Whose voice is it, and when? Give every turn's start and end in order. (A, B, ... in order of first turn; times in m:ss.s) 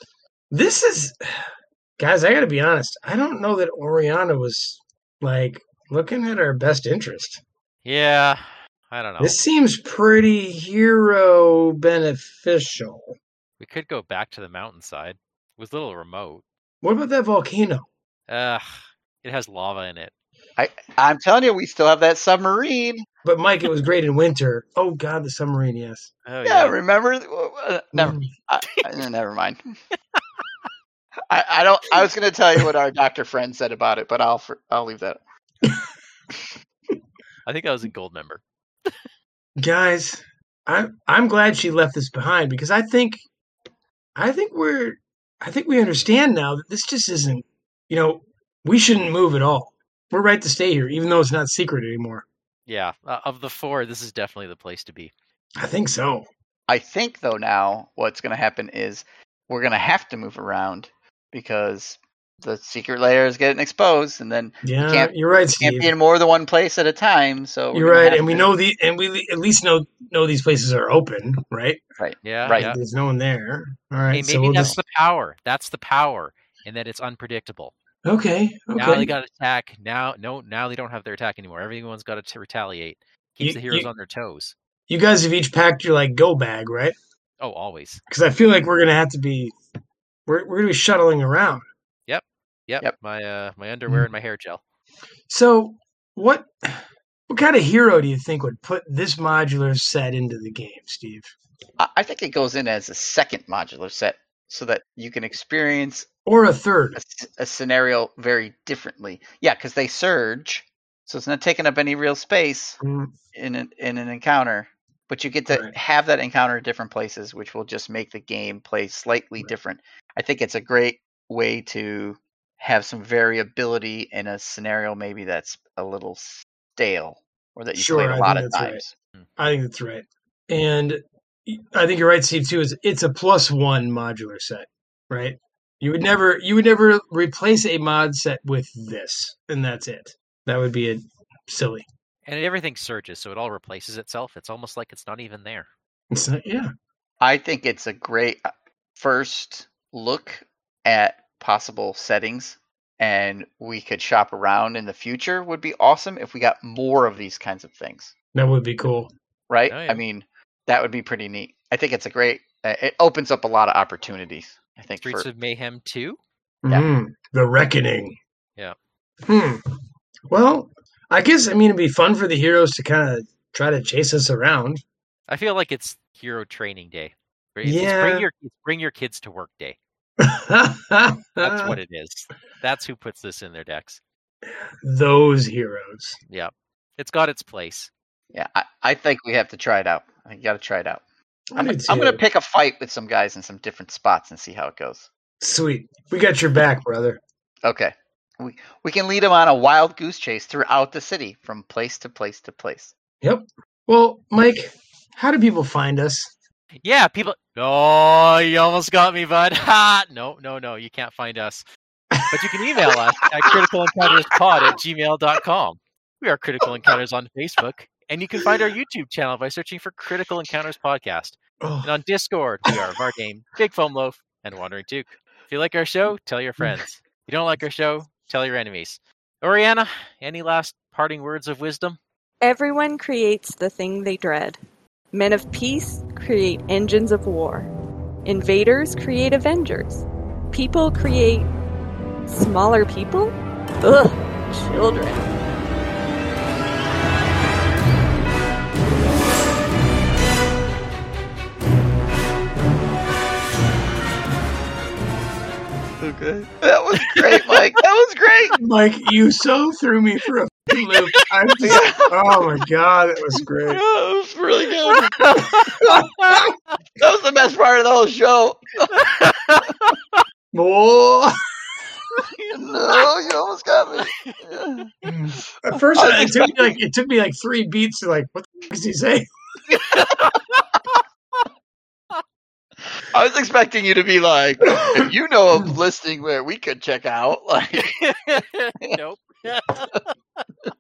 0:00.5-0:01.2 A
0:02.0-0:07.4 A
0:07.8-0:09.4 B
0:09.2-0:13.2 A
0:13.6-0:16.4 B
0:16.8-0:17.9 A
0:18.3-0:18.7 B
0:19.2-0:20.1 B
0:20.6-0:23.1 C
0:23.2-0:26.1 A
0:26.3-0:26.8 B
0:26.4-0:29.6 C
0:27.9-0:28.3 A
0:30.2-0:30.4 B
0:31.3-0:35.2 C
0:37.5-0:39.0 B
0:39.6-0:43.2 A
0:44.2-0:52.2 A
0:52.7-0:55.1 B
0:55.6-0:56.3 A
0:56.7-1:08.5 C
1:04.6-1:05.9 A
1:07.7-1:11.8 A
1:12.0-1:12.7 C
1:12.2-1:12.8 B
1:12.5-1:14.8 A
1:14.1-1:17.7 B
1:18.0-1:19.1 A
1:18.8-1:24.6 B
1:23.4-1:23.9 A
1:24.9-1:27.0 A
1:27.4-1:28.0 B
1:28.1-1:29.5 A
1:30.3-1:31.6 A
1:32.1-1:34.6 B
1:35.3-1:41.3 A
1:41.8-1:46.1 C
1:46.3-1:47.0 A
1:47.0-1:52.8 C
1:52.8-1:53.1 A
1:53.3-2:08.9 C
1:55.5-1:55.8 A
2:07.7-2:08.8 A
2:09.4-2:21.8 A
2:22.3-2:25.7 B
2:26.1-2:26.7 A
2:27.2-2:28.4 C
2:29.0-2:38.1 C
2:38.3-2:39.1 A
2:39.5-2:45.3 C
2:39.7-2:40.0 B
2:45.0-2:46.2 B
2:46.6-2:48.2 A
2:49.3-2:49.6 A
2:50.3-2:54.8 A
2:55.3-2:59.8 B
2:57.6-2:58.3 A
3:00.2-3:01.8 A
3:01.4-3:04.0 B
3:04.4-3:06.2 A
3:06.3-3:07.9 B
3:08.3-3:11.0 C
3:11.5-3:12.2 A
3:11.6-3:15.1 C
3:15.4-3:17.2 A
3:17.6-3:22.9 C
3:23.2-3:26.3 A
3:26.8-3:31.6 B
3:32.1-3:33.6 A
3:32.3-3:52.0 B
3:41.6-3:41.9 A
3:46.6-3:46.8 A
3:52.4-3:54.6 D
3:55.1-3:57.7 D
3:58.2-4:01.5 D
4:02.3-4:05.2 D
4:16.0-4:18.6 C
4:17.0-4:17.6 B
4:18.6-4:23.8 A
4:21.6-4:22.4 C
4:23.7-4:25.4 C
4:24.8-4:26.5 B
4:25.6-4:26.5 A
4:27.0-4:29.7 C
4:29.0-4:30.2 B
4:30.5-4:31.3 A
4:32.1-4:34.9 C
4:34.1-4:34.4 B
4:35.0-4:39.3 A
4:35.9-4:36.7 C
4:39.8-4:41.0 B
4:39.8-4:40.4 C
4:42.9-4:49.0 C
4:47.8-4:50.4 B